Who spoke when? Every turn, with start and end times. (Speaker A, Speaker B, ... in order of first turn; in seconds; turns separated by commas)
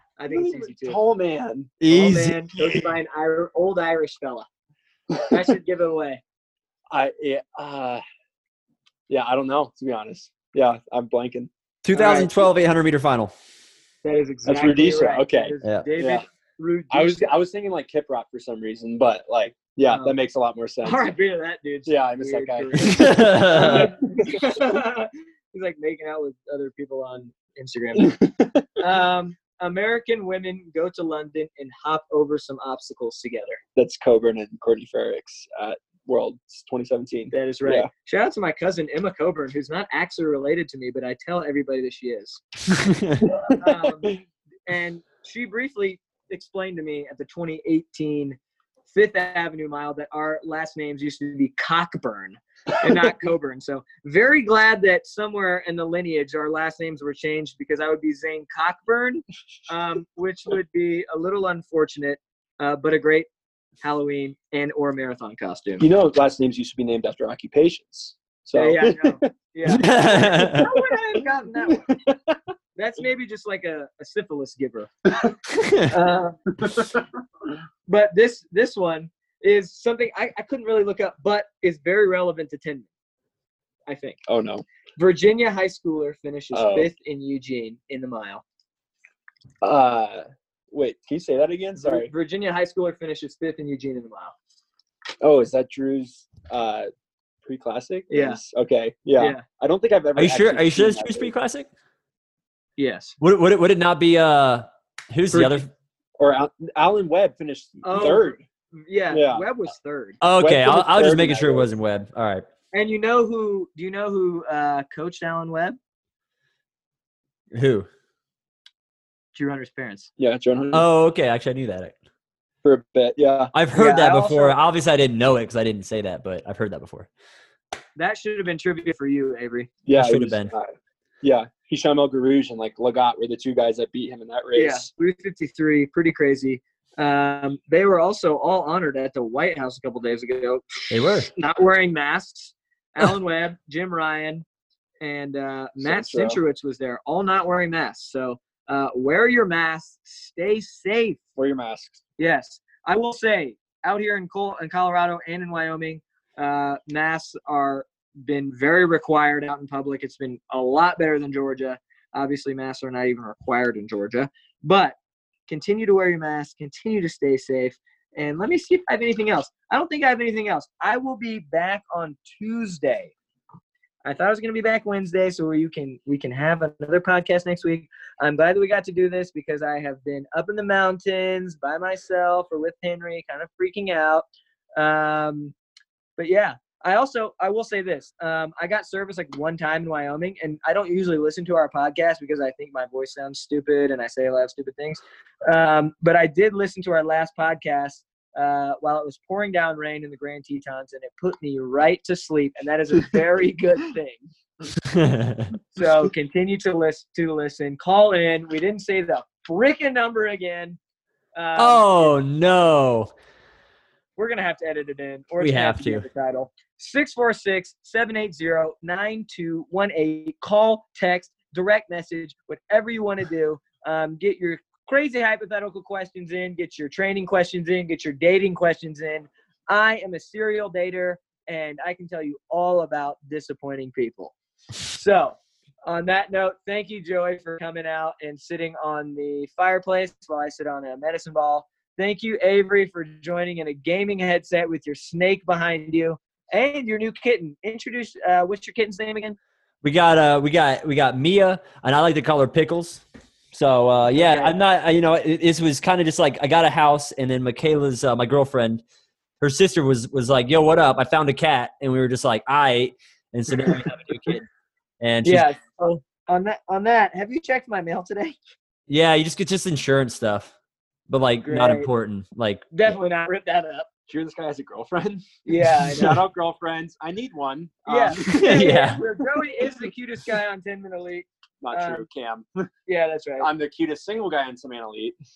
Speaker A: 0.2-1.0, Speaker B: 0.3-1.7, Speaker C: 1.8-2.8, Speaker A: 1.9-4.5, Speaker A: 5.3-6.2, Speaker B: 6.9-8.0, Speaker B: 9.1-11.5, Speaker C: 11.8-13.3, Speaker A: 11.9-12.3, Speaker A: 14.0-17.3, Speaker B: 14.5-16.2, Speaker B: 16.9-21.1, Speaker A: 20.8-33.6, Speaker B: 21.9-24.6, Speaker C: 22.8-23.9, Speaker B: 28.0-28.7, Speaker B: 33.8-37.9, Speaker A: 37.3-42.4, Speaker C: 42.7-43.2, Speaker B: 43.2-44.1, Speaker A: 43.5-48.4, Speaker A: 48.9-63.3, Speaker A: 63.8-65.8, Speaker B: 65.8-69.3, Speaker A: 68.5-71.9, Speaker C: 69.7-70.7, Speaker B: 71.7-72.4, Speaker A: 72.8-75.3, Speaker C: 75.5-75.9, Speaker A: 75.9-76.4, Speaker B: 76.6-77.0, Speaker A: 77.9-82.9, Speaker A: 83.9-84.2, Speaker B: 84.3-84.6, Speaker A: 85.0-88.4, Speaker B: 86.5-86.9, Speaker B: 89.6-92.1, Speaker A: 91.8-94.3, Speaker B: 95.2-96.9, Speaker B: 97.5-101.3, Speaker A: 98.1-98.4, Speaker A: 99.2-99.4, Speaker C: 100.2-101.7, Speaker A: 102.8-103.2, Speaker C: 103.2-105.7, Speaker B: 105.3-105.6, Speaker B: 106.2-108.4, Speaker A: 107.8-110.2, Speaker B: 109.1-109.4, Speaker C: 110.2-112.5, Speaker B: 110.4-111.7, Speaker A: 112.7-115.8, Speaker C: 117.5-117.9, Speaker A: 119.3-120.1, Speaker B: 120.2-120.8, Speaker C: 120.7-122.0, Speaker B: 122.6-123.5, Speaker C: 123.5-127.1, Speaker A: 123.7-124.6, Speaker A: 128.0-129.7, Speaker B: 129.9-134.9, Speaker C: 129.9-130.5, Speaker A: 134.6-144.4, Speaker C: 140.9-141.3, Speaker A: 145.0-151.2, Speaker B: 145.8-146.4, Speaker B: 151.4-152.0, Speaker A: 152.2-164.9, Speaker A: 165.5-173.1, Speaker A: 174.1-184.3, Speaker A: 184.8-185.6, Speaker A: 186.2-204.3, Speaker C: 204.8-205.6, Speaker A: 205.7-210.8, Speaker A: 211.4-212.2, Speaker C: 211.6-213.1, Speaker A: 214.2-234.3, Speaker C: 215.4-216.1, Speaker A: 234.9-249.4, Speaker C: 249.8-258.8, Speaker A: 254.1-254.6, Speaker C: 259.4-264.5, Speaker C: 265.0-265.5, Speaker A: 265.2-268.4, Speaker C: 268.9-270.5, Speaker C: 271.1-272.7, Speaker A: 271.4-271.9, Speaker A: 272.7-273.9, Speaker B: 274.1-279.0, Speaker A: 275.4-276.2, Speaker A: 277.9-282.0, Speaker C: 278.2-279.0, Speaker B: 281.6-282.7, Speaker A: 282.9-283.5, Speaker B: 283.4-285.2